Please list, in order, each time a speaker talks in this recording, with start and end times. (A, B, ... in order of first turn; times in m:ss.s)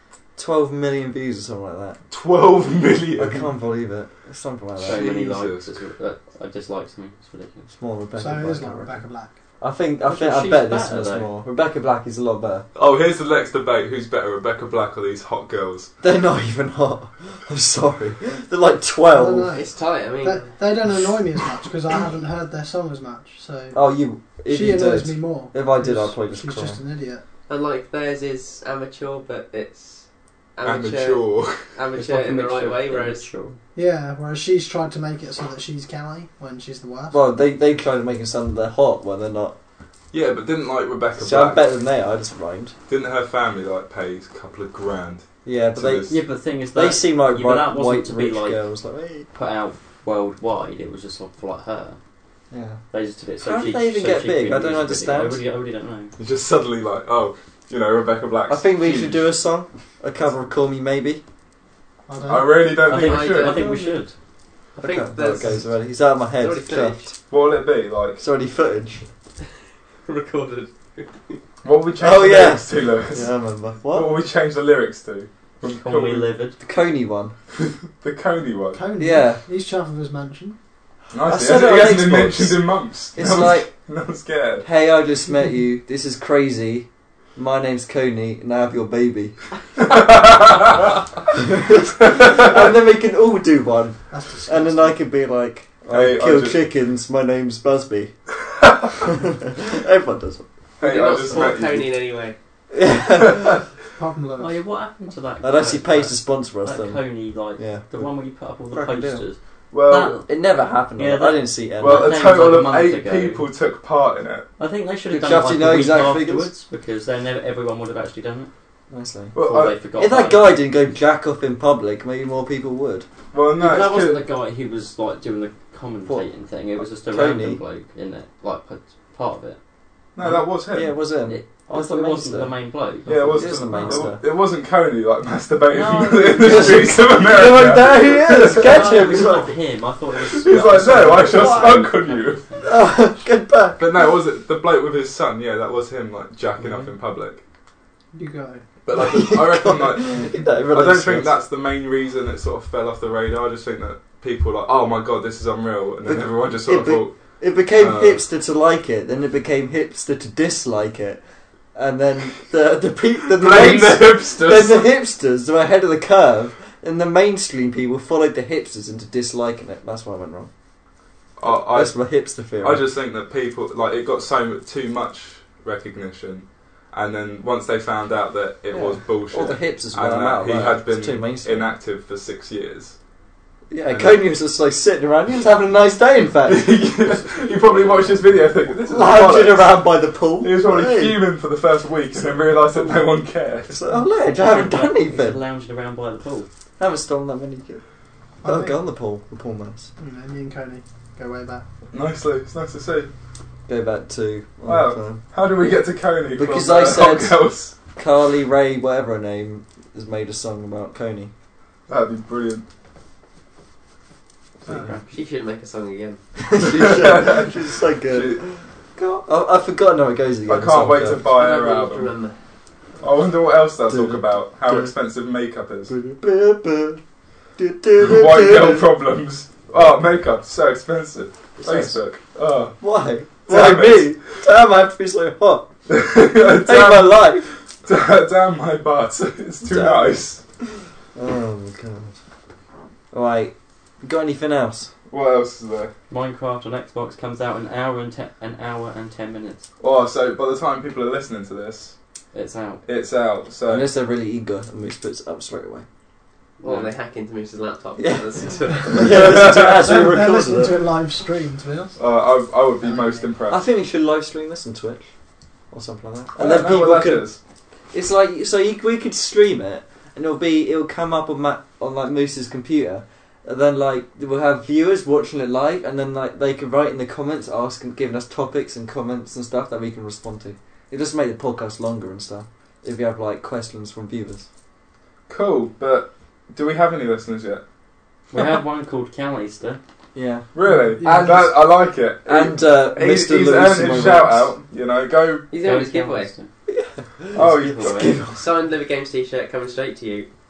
0:00.4-0:02.0 A
0:02.1-0:03.5 B
0:03.2-0:05.2 A
0:04.8-0:07.7 C
0:04.8-0:05.7 B
0:07.7-0:09.0 A
0:08.2-0:09.4 D
0:09.6-0:12.7 A
0:10.0-0:11.3 C
0:12.8-0:15.9 B
0:16.0-0:19.5 A
0:19.1-0:23.8 D
0:19.6-0:20.5 E
0:23.7-0:26.8 A
0:24.5-0:27.2 D
0:27.5-0:33.3 E
0:30.6-0:31.7 B
0:32.0-0:33.6 C
0:33.8-0:37.2 D
0:37.1-0:39.6 A
0:40.1-0:41.7 B
0:41.2-0:42.7 A
0:42.9-0:46.2 B
0:45.4-0:46.1 A
0:46.1-0:48.6 C
0:46.8-0:49.3 A
0:49.3-0:52.0 C
0:52.5-0:52.8 A
0:52.9-0:56.1 C
0:53.4-0:55.4 A
0:56.2-0:59.4 B
0:58.5-1:01.2 A
1:02.1-1:02.8 D
1:02.3-1:03.6 B
1:02.9-1:04.1 C
1:02.9-1:03.7 E
1:03.6-1:04.0 A
1:04.8-1:05.7 E
1:04.8-1:07.2 A
1:06.4-1:07.1 E
1:07.3-1:08.2 B
1:08.2-1:09.1 A
1:10.1-1:11.4 E
1:11.6-1:13.3 B
1:12.0-1:14.1 A
1:13.8-1:16.3 B
1:15.6-1:16.6 C
1:16.6-1:17.3 A
1:18.0-1:18.9 B
1:18.7-1:20.6 D
1:19.0-1:19.4 A
1:21.1-1:24.7 B
1:21.2-1:22.6 A
1:23.2-1:23.7 A
1:24.6-1:29.4 A
1:29.8-1:31.0 B
1:31.4-1:38.1 A
1:32.0-1:32.7 B
1:34.1-1:35.0 D
1:35.9-1:36.6 B
1:38.6-1:38.9 B
1:39.0-1:40.5 A
1:40.8-1:41.9 B
1:40.8-1:42.4 E
1:42.7-1:43.6 A
1:43.2-1:43.6 B
1:44.0-1:44.6 D
1:44.4-1:50.3 C
1:45.4-1:47.0 A
1:47.6-1:48.1 A
1:48.7-1:49.2 A
1:49.7-1:50.3 B
1:50.3-1:52.2 A
1:51.0-1:53.5 C
1:51.8-1:54.5 B
1:54.6-1:58.5 C
1:55.1-1:56.5 A
1:58.9-1:59.4 A
1:59.3-1:59.8 B
1:59.4-2:00.5 C
2:00.0-2:03.1 A
2:03.3-2:04.3 B
2:03.6-2:09.6 C
2:06.0-2:07.6 A
2:10.2-2:11.0 B
2:10.2-2:12.5 A
2:11.2-2:14.1 C
2:13.1-2:19.0 B
2:13.3-2:14.2 A
2:15.7-2:17.2 C
2:16.4-2:19.6 A
2:18.4-2:22.7 C
2:20.2-2:22.5 B
2:20.8-2:21.8 A
2:22.6-2:23.9 A
2:23.8-2:27.4 B
2:28.1-2:28.6 D
2:28.8-2:37.2 B
2:29.0-2:31.4 A
2:36.1-2:41.2 A
2:37.7-2:38.2 B
2:41.8-2:50.5 A
2:43.3-2:44.9 B
2:51.4-2:52.0 B
2:51.4-2:52.8 A
2:52.6-3:03.0 B
2:58.7-3:01.7 A
3:03.7-3:06.8 A
3:03.9-3:04.2 B
3:06.4-3:09.8 B
3:07.3-3:08.4 C
3:08.9-3:11.2 A
3:10.4-3:13.8 B
3:13.7-3:15.4 A
3:14.4-3:16.5 C
3:16.8-3:17.8 A
3:18.4-3:18.8 D
3:18.4-3:19.9 A
3:20.0-3:21.7 D
3:21.9-3:23.1 B
3:23.7-3:25.2 A
3:24.6-3:27.8 B
3:26.4-3:27.4 A
3:28.0-3:31.3 A
3:31.9-3:32.6 B
3:34.7-3:34.9 A
3:34.7-3:35.2 C
3:35.1-3:36.2 E
3:36.4-3:41.2 A
3:36.6-3:38.4 B
3:40.5-3:42.1 B
3:41.3-3:42.4 E
3:43.0-3:45.9 B
3:43.9-3:44.9 A
3:45.9-3:47.0 A
3:47.6-3:48.9 A
3:48.0-3:52.8 B
3:51.6-3:52.0 A
3:52.8-3:55.7 A
3:53.5-3:54.2 B
3:55.9-3:57.3 B
3:56.5-3:57.5 A
3:57.8-4:00.4 B
3:59.6-4:00.2 A
4:01.2-4:02.2 A
4:03.1-4:04.9 A
4:05.1-4:05.9 B
4:06.1-4:09.7 C
4:09.8-4:12.0 B
4:12.3-4:12.8 C
4:12.8-4:13.9 B
4:13.7-4:15.9 A
4:16.6-4:16.9 C
4:16.6-4:19.3 E
4:18.0-4:20.9 A
4:19.1-4:19.9 B
4:19.1-4:22.0 D
4:22.0-4:23.6 B
4:22.8-4:23.3 D
4:23.5-4:25.1 A
4:25.7-4:27.3 A
4:26.4-4:27.4 B
4:27.9-4:44.5 A
4:45.3-4:47.6 B
4:48.3-4:49.8 C
4:50.2-4:50.5 A
4:50.5-4:55.5 B
4:50.7-4:51.6 D
4:51.0-4:51.3 A
4:52.2-4:54.5 A
4:55.5-4:56.3 E
4:55.6-4:56.5 C
4:56.7-4:58.5 A
4:57.3-4:58.2 B
4:57.4-4:58.2 C
4:58.4-5:00.3 E